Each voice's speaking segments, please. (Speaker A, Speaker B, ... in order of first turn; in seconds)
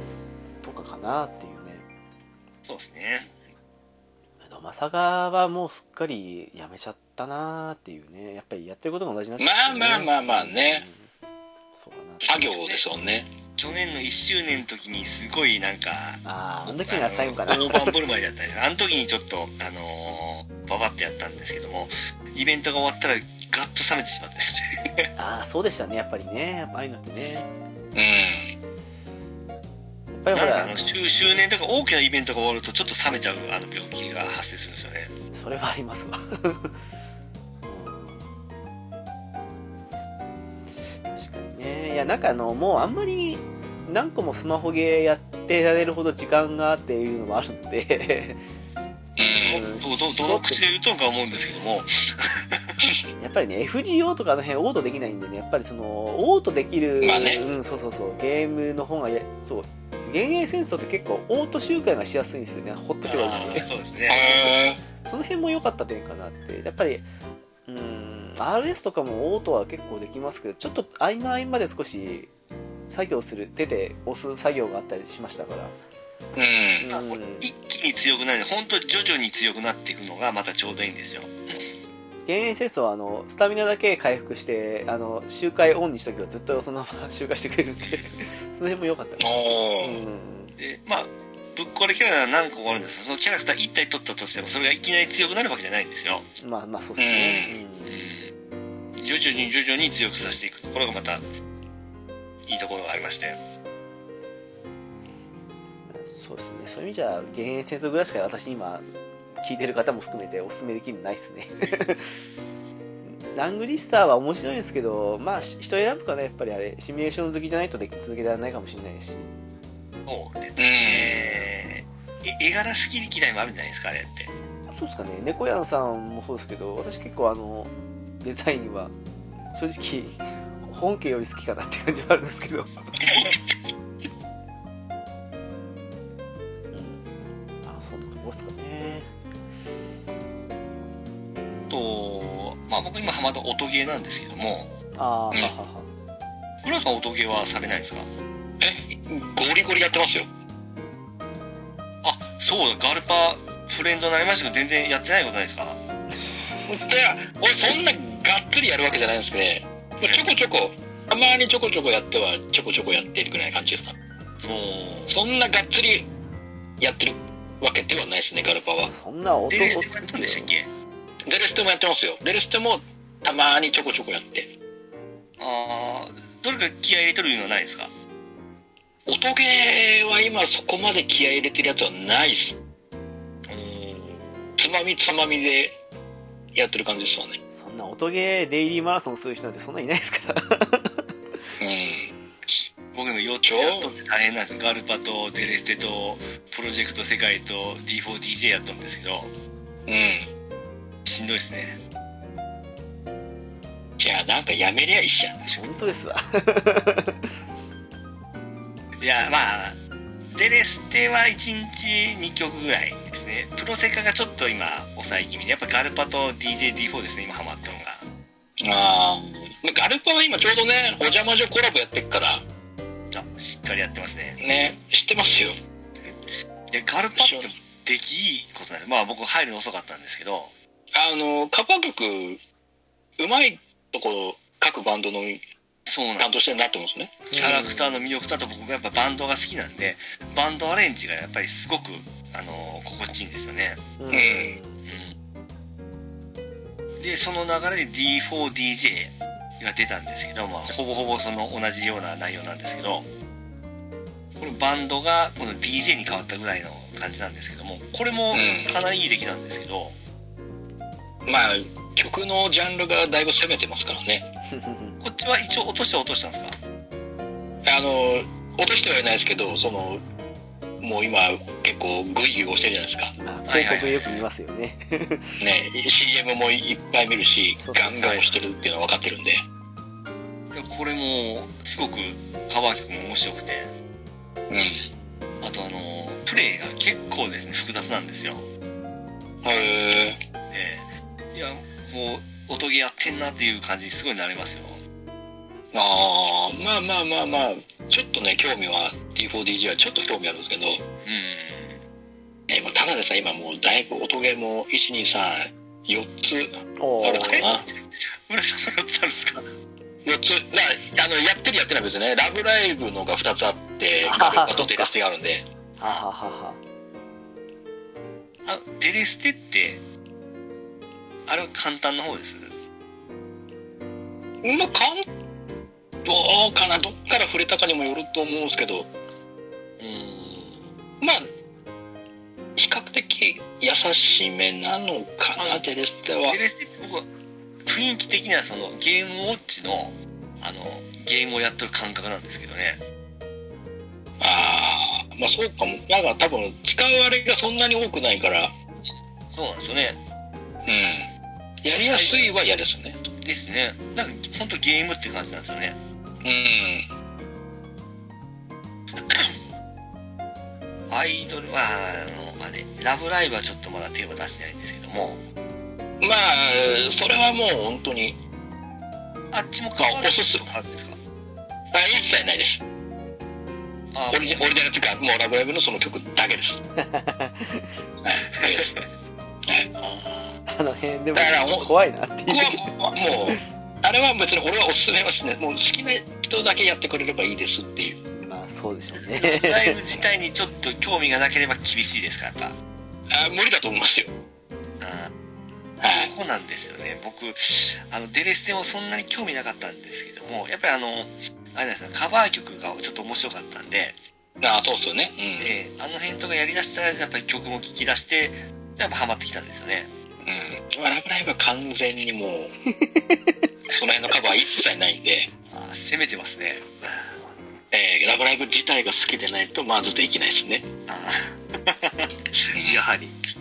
Speaker A: 0.6-1.9, 4.4-11.1, 11.8-12.5, 16.2-17.9, 25.2-27.5, 30.1-30.9, 35.3-36.7, 37.7-38.2, 41.0-48.4, 49.3-50.6, 53.2-63.7, 65.0-67.1, 67.7-72.3, 72.9-75.7, 76.8-77.5, 82.3-90.5, 96.4-98.0, 105.9-108.8, 109.4-112.0, 113.1-119.3, 120.9-121.5, 124.7-128.9, 129.5-132.8, 136.7-137.1, 137.6-139.1, 145.0-145.9, 156.1-156.9, 168.4-170.5, 187.5-191.0, 205.4-207.3, 237.3-237.9, 244.0-244.8, 264.5-265.0, 273.2-275.3, 277.6-278.5, 306.8-307.5, 314.0-314.9, 315.8-316.6, 376.8-377.7, 380.5-383.4, 388.1-389.8, 412.7-413.3
Speaker B: 2.6-3.3, 12.5-12.8, 13.6-25.1, 30.3-35.1, 49.5-52.8, 63.1-64.5, 76.9-81.7, 87.8-88.2, 90.6-96.3, 97.9-98.3, 99.0-101.2, 102.5-103.4, 120.1-124.3, 141.7-144.7, 146.6-148.1, 152.0-155.8, 160.0-160.3, 164.4-165.2, 169.5-170.7, 175.4-177.9, 183.5-184.6, 192.5-199.3, 201.1-201.8, 209.0-209.8, 210.3-218.0, 223.1-224.4, 226.7-230.5, 235.9-236.5, 237.3-243.8, 244.9-245.2, 247.0-253.1, 254.4-260.0, 265.0-266.6, 273.5-274.2, 280.5-283.7, 285.4-288.5, 290.5-294.8, 301.1-301.8, 307.2-307.7, 308.3-309.5, 318.4-319.8, 321.3-322.5, 329.8-330.7, 335.4-335.6, 336.3-337.1, 337.7-342.8, 349.3-350.0, 351.7-352.3, 353.2-355.8, 359.0-359.4, 360.9-365.2, 369.3-371.0, 373.9-374.7, 378.4-378.8, 379.8-380.4, 389.1-392.5, 394.8-395.1, 395.9-404.0, 405.4-409.9, 415.5-417.1, 420.9-423.2
Speaker C: 9.4-10.8, 12.2-13.3, 27.9-28.5, 49.2-49.6, 57.0-57.5, 64.1-64.8, 76.4-76.9, 89.2-90.0, 97.0-97.6, 120.6-121.2, 148.6-150.3, 156.7-164.0, 165.1-166.1, 166.8-168.9, 171.3-174.5, 179.1-182.6, 184.6-185.8, 186.6-187.4, 191.6-192.1, 193.4-193.9, 199.9-200.3, 204.0-205.4, 218.6-222.4, 224.4-225.6, 227.2-227.5, 230.9-232.4, 233.2-235.4, 236.2-237.4, 244.1-244.6, 258.3-258.7, 261.3-264.3, 267.6-270.0, 270.8-273.1, 275.4-279.4, 284.5-284.9, 289.4-290.2, 295.7-300.8, 302.5-307.6, 310.1-315.4, 324.4-325.1, 326.1-328.9, 331.0-331.3, 332.6-336.4, 344.2-348.5, 350.7-351.1, 351.6-353.0, 356.2-356.9, 366.0-368.2, 369.8-370.5, 371.7-372.6, 374.1-376.6, 378.0-378.7, 381.1-381.7, 382.3-388.0, 393.1-394.1, 395.8-396.1, 404.4-405.5, 410.2-412.5, 413.7-415.3, 417.7-420.7, 422.5-422.8